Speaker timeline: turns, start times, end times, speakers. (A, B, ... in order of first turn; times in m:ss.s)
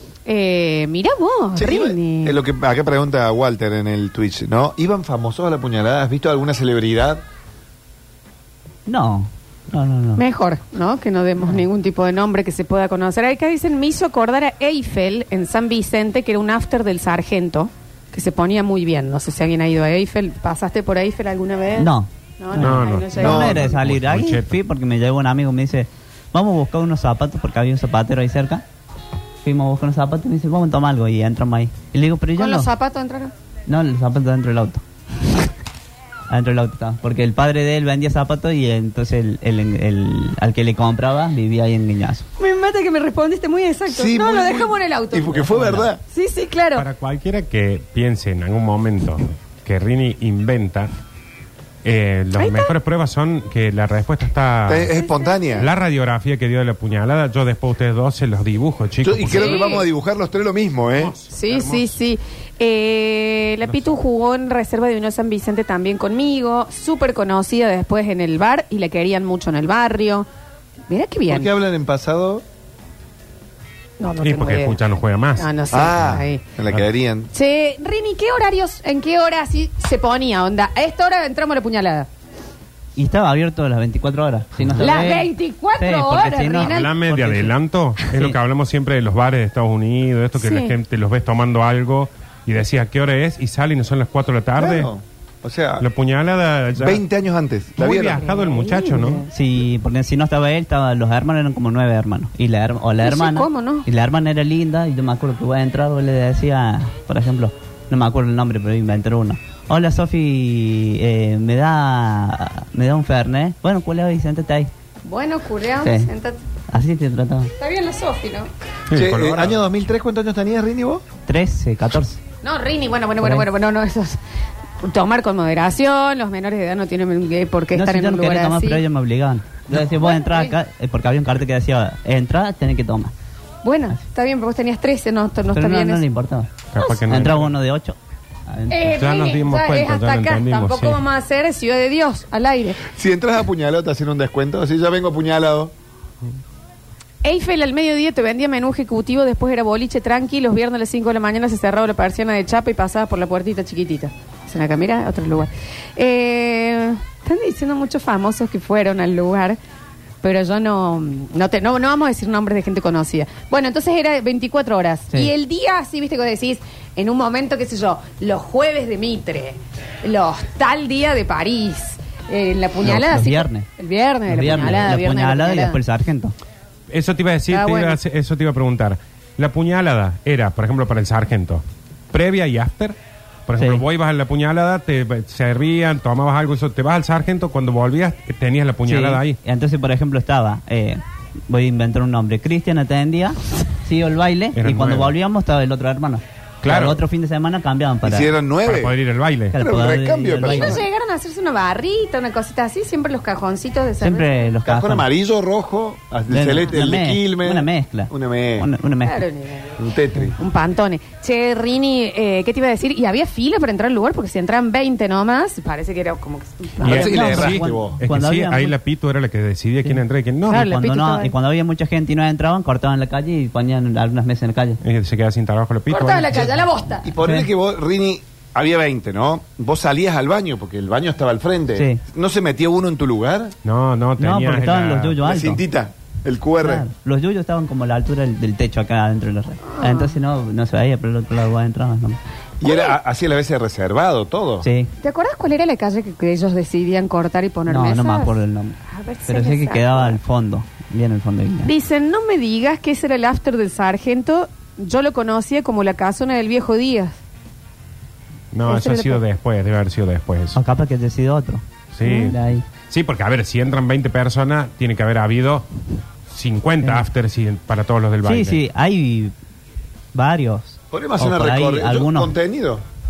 0:00.2-0:02.4 A
0:01.6-0:07.2 B
0:08.8-0:10.2 C
0:10.2-0:23.5 A
0:21.8-0:28.6 C
0:22.6-0:24.6 D
0:23.2-0:23.7 B
0:29.4-0:32.7 C
0:32.4-0:33.3 A
0:33.7-0:34.8 C
0:36.3-0:42.2 C
0:42.4-0:45.5 A
0:43.9-0:46.0 B
0:45.5-0:45.8 C
0:46.1-0:46.8 A
0:46.8-0:50.9 D
0:51.8-0:54.9 D
0:52.4-0:52.7 A
0:54.7-0:55.7 B
0:54.9-0:55.6 A
0:55.6-0:59.7 D
0:59.0-1:01.1 B
0:59.3-0:59.8 A
1:01.0-1:01.9 D
1:01.3-1:10.3 A
1:03.6-1:03.9 D
1:10.9-1:11.5 A
1:11.3-1:12.4 B
1:14.0-1:14.8 A
1:14.2-1:15.5 D
1:15.4-1:16.4 A
1:15.7-1:17.3 B
1:17.3-1:22.1 A
1:23.0-1:27.5 C
1:24.8-1:26.9 A
1:26.6-1:34.9 D
1:28.1-1:28.4 C
1:30.4-1:30.7 A
1:34.6-1:35.8 B
1:35.8-1:37.0 D
1:36.8-1:38.2 B
1:37.8-1:39.2 D
1:38.1-1:39.3 A
1:39.3-1:54.7 C
1:43.0-1:43.8 A
1:55.0-1:56.4 A
1:55.8-1:56.1 C
1:56.7-1:57.5 C
1:57.6-1:58.5 A
1:58.9-1:59.7 D
1:58.9-2:01.0 B
2:01.3-2:02.2 C
2:02.4-2:04.2 A
2:03.2-2:03.4 C
2:04.8-2:08.8 A
2:07.7-2:13.1 C
2:09.8-2:10.5 A
2:13.6-2:16.0 A
2:15.5-2:16.5 C
2:16.7-2:17.5 D
2:17.1-2:19.0 C
2:18.7-2:22.8 A
2:18.9-2:21.0 D
2:22.9-2:25.7 B
2:27.2-2:39.6 A
2:40.2-2:55.8 A
2:52.8-2:53.7 C
2:54.3-2:56.3 C
2:56.9-3:09.4 D
2:57.5-2:58.0 A
3:03.6-3:03.8 C
3:08.8-3:18.3 C
3:14.6-3:15.1 D
3:16.6-3:17.0 D
3:18.0-3:18.9 B
3:18.6-3:19.5 D
3:19.5-3:20.8 C
3:19.5-3:20.8 B
3:20.4-3:24.5 A
3:24.0-3:25.1 C
3:24.6-3:28.7 B
3:26.3-3:29.2 C
3:29.0-3:29.8 A
3:29.8-3:30.3 B
3:30.4-3:36.9 A
3:36.8-3:38.0 B
3:36.8-3:40.6 D
3:37.0-3:38.7 C
3:39.8-3:44.8 C
3:40.5-3:41.3 A
3:44.8-3:46.6 D
3:45.9-3:47.1 A
3:47.0-3:53.5 B
3:53.6-3:55.2 D
3:54.2-3:55.6 C
3:55.2-3:56.8 B
3:56.6-4:02.2 C
3:59.6-4:00.1 A
4:02.6-4:04.6 B
4:02.6-4:02.9 A
4:04.6-4:04.9 C
4:05.0-4:08.4 A
4:07.7-4:08.8 C
4:08.9-4:10.2 A
4:09.3-4:11.7 C
4:11.6-4:17.2 A
4:18.5-4:20.6 D
4:18.7-4:19.2 A
4:20.5-4:22.6 C
4:21.9-4:25.6 D
4:22.0-4:22.3 A
4:26.3-4:28.6 D
4:28.2-4:29.3 C
4:30.1-4:32.3 C
4:30.9-4:32.8 B